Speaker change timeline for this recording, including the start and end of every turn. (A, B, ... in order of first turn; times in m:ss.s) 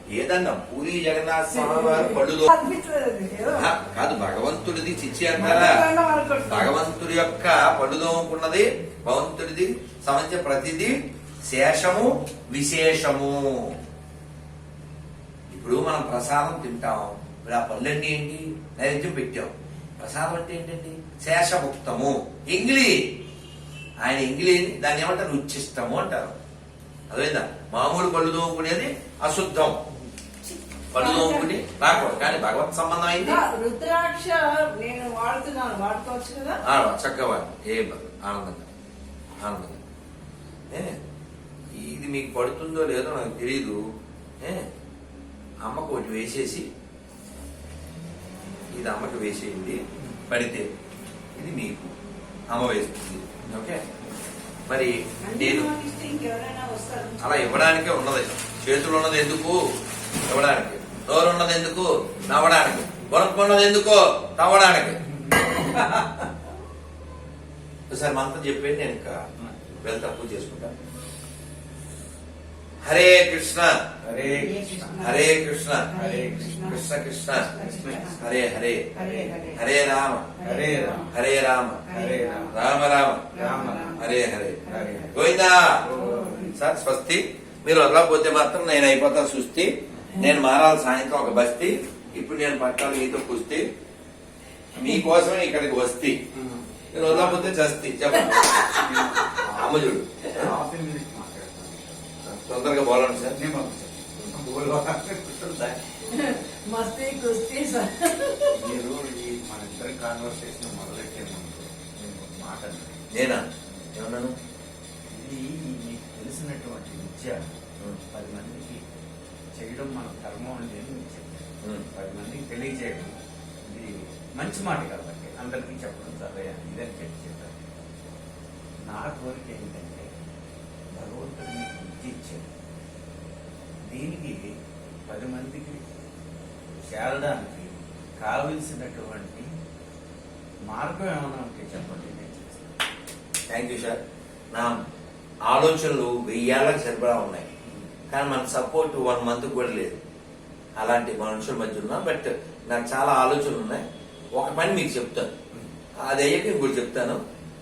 0:00.1-0:02.5 A
0:01.5-0:03.7 B
0:03.5-0:05.9 A
0:05.4-0:06.7 B
0:06.5-0:13.8 A
0:15.5-0:23.0 A
0:24.0-0:26.4 A
0:27.1-0:29.8 A
0:30.4-0:31.6 B
0:30.9-0:33.4 A
0:33.2-0:36.6 B
0:36.6-0:38.7 A
0:39.4-0:39.8 A
0:40.7-0:41.0 A
0:41.7-0:43.8 A
0:44.4-0:44.7 A
0:45.6-0:46.7 A
0:48.7-0:50.7 A
0:51.4-0:51.9 A
0:52.5-0:53.8 A
0:54.7-0:55.7 A
0:55.2-0:57.5 B
0:57.2-0:59.7 A
1:00.3-1:05.0 A
1:05.2-1:06.3 C
1:07.9-1:10.7 A
1:12.8-1:13.8 A
1:14.0-1:14.8 C
1:14.3-1:15.3 B
1:15.0-1:15.9 A
1:15.9-1:16.8 B
1:15.9-1:16.8 C
1:16.6-1:17.5 A
1:17.4-1:18.3 B
1:17.5-1:18.2 C
1:18.2-1:18.9 A
1:18.9-1:19.6 B
1:19.0-1:19.5 C
1:19.5-1:20.3 A
1:20.4-1:21.1 B
1:20.4-1:21.1 C
1:21.1-1:21.9 A
1:21.9-1:22.6 C
1:21.9-1:22.4 B
1:22.5-1:25.9 A
1:23.3-1:24.0 B
1:23.3-1:24.0 C
1:24.7-1:25.2 B
1:24.7-1:26.5 C
1:25.9-1:26.5 B
1:26.5-1:33.7 A
1:34.7-1:36.2 A
1:36.3-1:37.4 C
1:36.9-1:40.5 A
1:38.2-1:39.3 B
1:40.3-1:42.1 C
1:42.2-1:43.4 A
1:43.2-1:46.3 C
1:46.1-1:48.8 B
1:48.5-1:53.1 C
1:53.1-1:54.3 A
1:55.1-1:57.4 C
1:58.1-1:58.8 C
1:59.5-2:07.6 C
2:01.6-2:01.9 A
2:08.8-2:10.1 C
2:10.9-2:12.5 C
2:13.9-2:14.5 C
2:15.1-2:15.8 C
2:16.8-2:19.5 C
2:20.7-2:22.8 C
2:23.5-2:24.0 A
2:25.5-2:27.5 A
2:28.1-2:30.0 A
2:30.8-2:33.8 A
2:34.3-2:35.3 A
2:36.0-2:37.2 A